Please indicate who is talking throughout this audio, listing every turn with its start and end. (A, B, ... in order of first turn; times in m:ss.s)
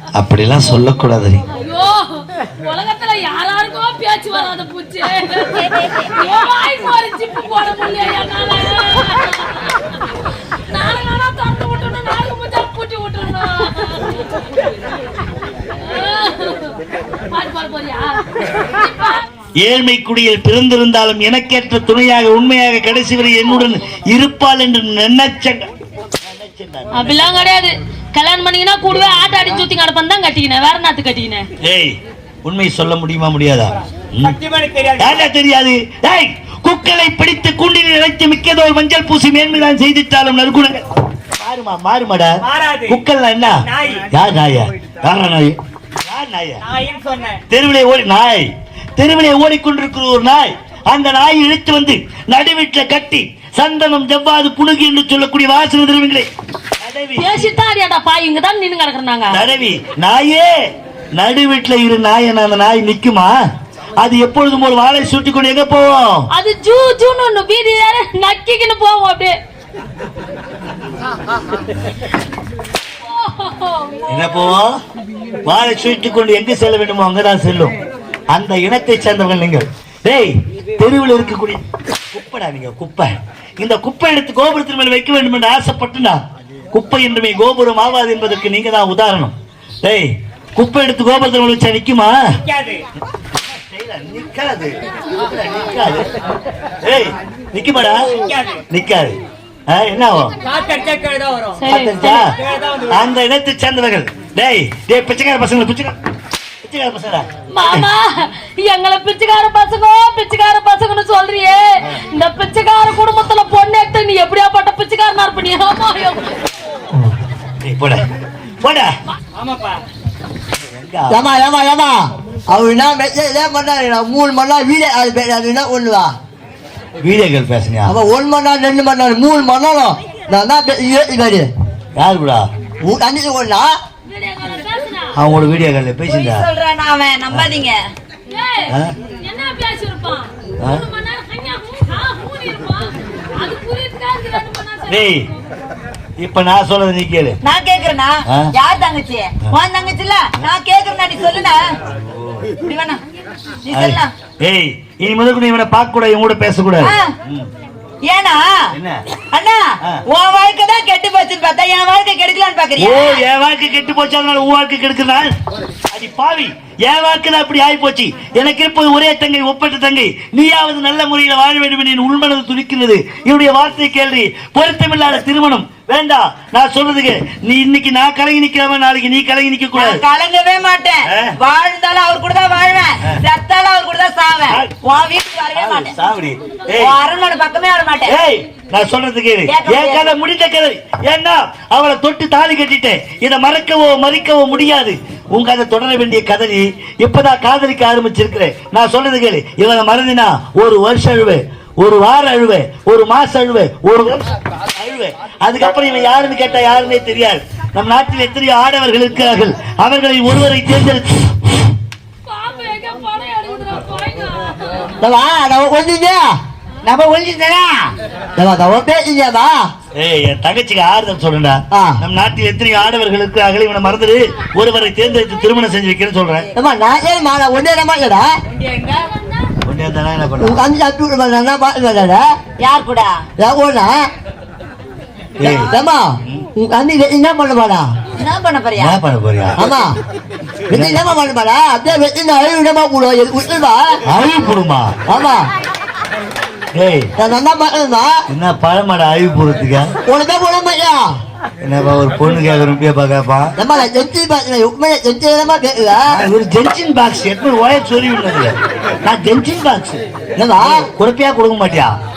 0:00.2-0:01.4 A
0:01.5-0:10.2 B
0:10.7-0:14.3 B
0:15.8-0:16.8 B
0:17.3-0:19.2 B
0:19.6-0:25.7 A
0:26.2-0:27.4 A
0:26.9-0:31.5 B
0:31.6-0:34.4 A
0:34.3-0:35.1 C
0:35.0-0:40.8 A
0:41.4-0:46.6 A
0:42.4-0:43.0 C
0:43.7-0:44.0 C
0:46.6-0:47.4 C
0:47.5-0:56.3 A
0:56.8-0:57.5 A
0:57.2-0:59.4 B
0:59.3-1:00.5 A
1:01.2-1:03.4 A
1:04.0-1:06.3 A
1:06.3-1:09.4 B
1:13.0-1:14.6 B
1:14.1-1:14.7 A
1:15.5-1:17.7 A
1:18.3-1:21.6 A
1:22.1-1:26.2 A
1:26.7-1:32.2 A
1:32.5-1:32.8 C
1:33.4-1:36.1 A
1:36.8-1:38.0 A
1:38.2-1:38.6 C
1:38.7-1:39.2 A
1:39.7-1:40.4 A
1:40.5-1:41.6 C
1:41.6-1:42.3 B
1:41.7-1:42.3 A
1:42.5-1:42.9 C
1:42.9-1:46.0 A
1:46.6-1:47.9 A
1:47.5-1:56.4 B
1:57.6-1:58.0 A
1:58.6-1:58.9 A
1:59.4-1:59.8 C
2:00.6-2:01.2 A
2:01.1-2:06.1 D
2:07.0-2:08.0 A
2:07.9-2:11.5 D
2:12.0-2:12.5 A
2:12.8-2:13.8 D
2:14.1-2:15.2 B
2:15.1-2:16.5 A
2:16.1-2:17.8 E
2:18.3-2:25.4 B
2:24.9-2:25.3 A
2:26.2-2:27.4 A
2:27.4-2:31.6 E
2:31.9-2:32.5 A
2:32.6-2:33.0 E
2:33.6-2:34.1 E
2:33.7-2:37.5 A
2:36.8-2:37.1 E
2:38.0-2:38.6 E
2:38.8-2:39.0 A
2:39.3-2:43.2 E
2:42.8-2:45.4 A
2:45.9-3:00.0 A
2:59.7-3:05.9 E
3:01.1-3:01.4 A
3:04.5-3:04.7 A
3:05.5-3:07.0 A
3:06.8-3:08.2 E
3:08.0-3:31.3 A
3:09.5-3:10.1 E
3:32.3-3:35.0 B
3:35.0-3:36.4 D
3:36.8-3:37.9 E
3:38.4-3:39.7 D
3:40.0-3:46.5 A
3:41.7-3:42.0 D
3:46.6-3:48.3 D
3:48.5-3:49.1 E
3:49.6-3:50.6 A
3:50.4-3:52.3 D
3:52.6-3:53.2 E
3:53.4-3:54.1 D
3:55.4-3:55.7 A
3:55.4-3:57.9 D
3:55.4-3:55.8 E
3:58.2-3:59.0 E
3:58.8-3:59.6 A
3:59.6-4:00.0 D
4:00.7-4:04.0 D
4:00.7-4:01.1 A
4:04.1-4:05.0 A
4:05.1-4:05.5 D
4:06.8-4:07.1 A
4:07.2-4:08.2 D
4:08.3-4:10.0 A
4:10.1-4:11.2 D
4:11.6-4:13.5 A
4:13.6-4:16.2 D
4:16.1-4:20.0 A
4:20.4-4:20.9 D
4:20.6-4:21.9 A